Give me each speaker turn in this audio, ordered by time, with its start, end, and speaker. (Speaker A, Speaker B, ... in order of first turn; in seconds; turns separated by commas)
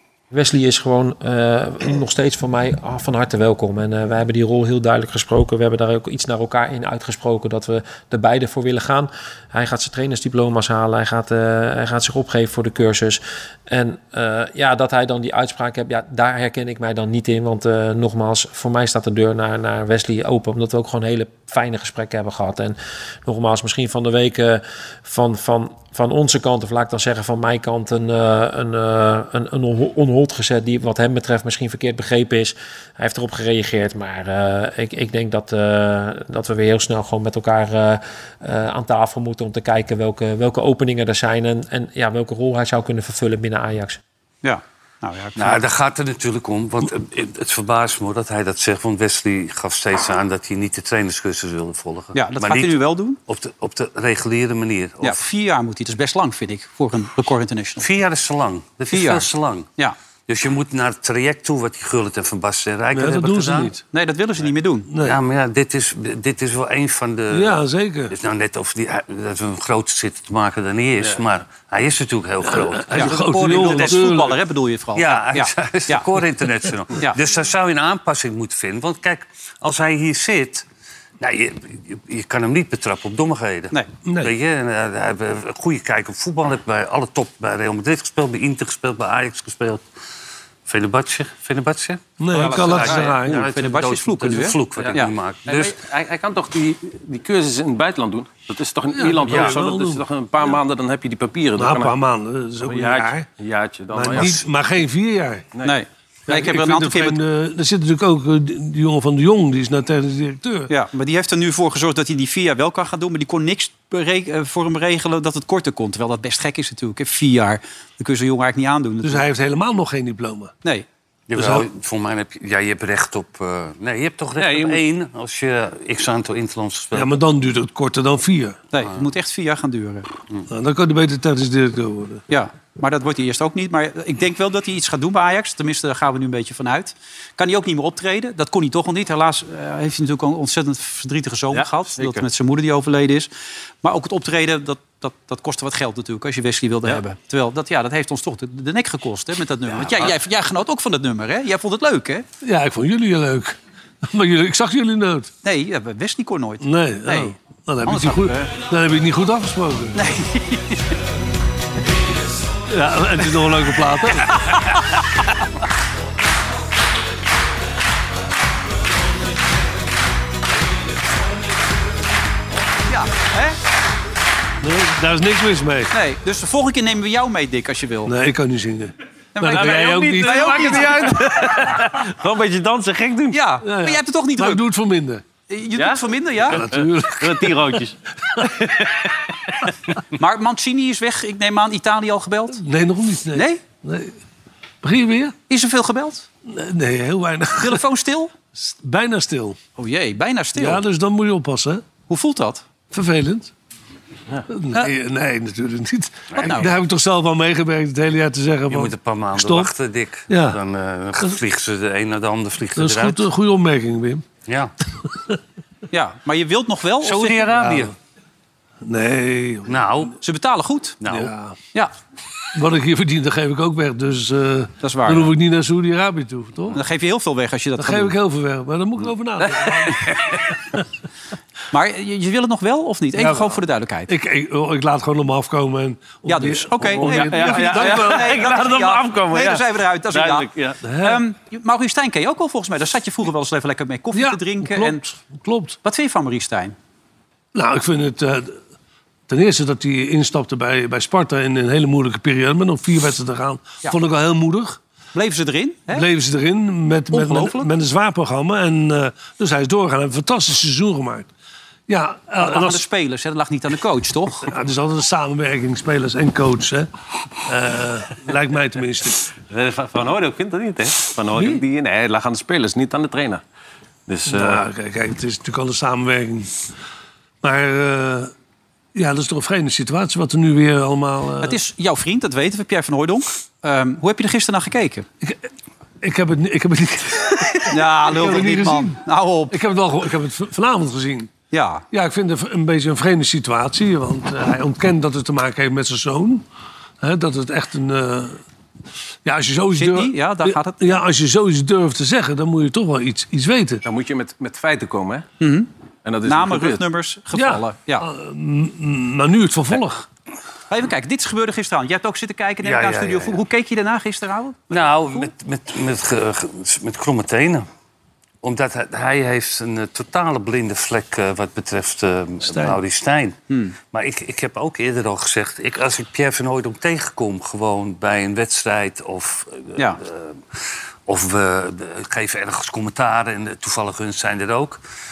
Speaker A: 0.3-44.0, Speaker B: 44.4-45.6, Speaker C: 45.4-55.2, Speaker B: 52.1-53.2, Speaker B: 55.0-57.9, Speaker C: 57.8-59.7, Speaker B: 58.9-59.9, Speaker C: 60.3-63.7, Speaker D: 62.9-63.8, Speaker B: 63.9-64.9, Speaker D: 64.9-65.2, Speaker C: 65.0-74.0, Speaker D: 67.3-68.1, Speaker D: 72.4-74.4, Speaker B: 72.9-76.0, Speaker C: 74.9-80.6, Speaker C: 81.2-89.8, Speaker D: 84.0-84.3, Speaker C: 90.7-95.8, Speaker D: 92.2-93.5, Speaker B: 92.3-95.1, Speaker E: 94.7-101.9, Speaker D: 98.9-100.0, Speaker C: 99.3-99.5, Speaker D: 101.6-103.3, Speaker E: 102.6-104.4, Speaker D: 103.9-105.5, Speaker B: 105.6-107.2, Speaker D: 106.3-110.7, Speaker B: 110.7-119.2, Speaker D: 119.0-120.5, Speaker C: 121.3-127.1, Speaker D: 121.4-121.7, Speaker E: 124.4-124.8, Speaker D: 126.9-128.6, Speaker B: 128.7-130.1, Speaker D: 130.5-132.2, Speaker B: 132.3-143.3, Speaker E: 141.5-142.2, Speaker B: 143.8-152.2, Speaker D: 152.4-155.3, Speaker B: 155.4-158.5, Speaker D: 156.6-160.0, Speaker B: 159.9-160.9, Speaker D: 162.7-164.4, Speaker B: 164.3-164.8, Speaker B: 172.9-173.6, Speaker D: 174.6-175.9, Speaker B: 175.9-178.1, Speaker D: 178.1-180.9, Speaker B: 179.3-181.2, Speaker E: 179.6-183.4, Speaker B: 183.3-184.6, Speaker D: 183.6-185.2, Speaker B: 185.5-186.6, Speaker E: 185.7-188.0, Speaker D: 186.5-187.8, Speaker E: 188.8-189.1, Speaker B: 190.1-192.6, Speaker D: 192.6-194.1, Speaker B: 193.3-193.6, Speaker D: 194.8-195.3, Speaker B: 195.5-196.2, Speaker D: 196.5-197.8, Speaker B: 197.6-198.3, Speaker D: 198.5-199.6, Speaker B: 199.8-200.8, Speaker D: 200.6-201.8, Speaker B: 202.1-202.6, Speaker D: 202.9-203.5, Speaker D: 204.5-209.7, Speaker B: 206.3-206.7, Speaker C: 208.7-213.3, Speaker D: 210.3-210.6, Speaker D: 212.8-214.2, Speaker C: 214.5-214.7, Speaker B: 215.9-217.4, Speaker C: 217.0-217.9, Speaker D: 217.6-217.9, Speaker D: 218.8-219.8, Speaker C: 219.7-220.2, Speaker B: 220.2-221.0, Speaker C: 221.0-221.3, Speaker D: 221.1-221.6, Speaker D: 222.5-226.8, Speaker B: 224.8-225.3, Speaker B: 226.7-228.2, Speaker D: 227.8-230.2, Speaker E: 229.4-230.4, Speaker B: 231.7-234.1, Speaker D: 233.2-238.4, Speaker B: 236.2-245.0, Speaker E: 236.9-240.8, Speaker D: 240.8-241.2, Speaker D: 244.1-245.8, Speaker B: 245.8-246.7, Speaker D: 247.5-248.6, Speaker D: 249.3-254.8, Speaker B: 255.1-256.1, Speaker D: 255.9-261.3, Speaker B: 257.1-257.7, Speaker D: 261.9-262.8, Speaker B: 262.4-264.5, Speaker D: 264.5-266.9, Speaker D: 267.4-269.3, Speaker E: 269.4-273.4, Speaker D: 271.3-271.6, Speaker E: 274.1-274.6, Speaker D: 274.2-276.5, Speaker D: 277.4-278.3, Speaker D: 278.9-281.6, Speaker B: 281.4-285.1, Speaker D: 285.2-285.5, Speaker D: 286.0-291.3, Speaker B: 287.7-289.6, Speaker B: 291.5-291.8, Speaker D: 291.9-296.4, Speaker D: 297.0-298.4, Speaker D: 299.2-303.8, Speaker B: 299.8-300.8, Speaker E: 303.8-305.2, Speaker B: 305.4-305.7, Speaker E: 306.0-306.8, Speaker B: 306.2-308.1, Speaker D: 307.3-310.1, Speaker B: 310.7-315.3, Speaker C: 312.6-313.4, Speaker C: 314.7-317.7, Speaker C: 318.4-323.4, Speaker D: 322.4-322.8, Speaker B: 323.5-323.7, Speaker C: 323.9-334.8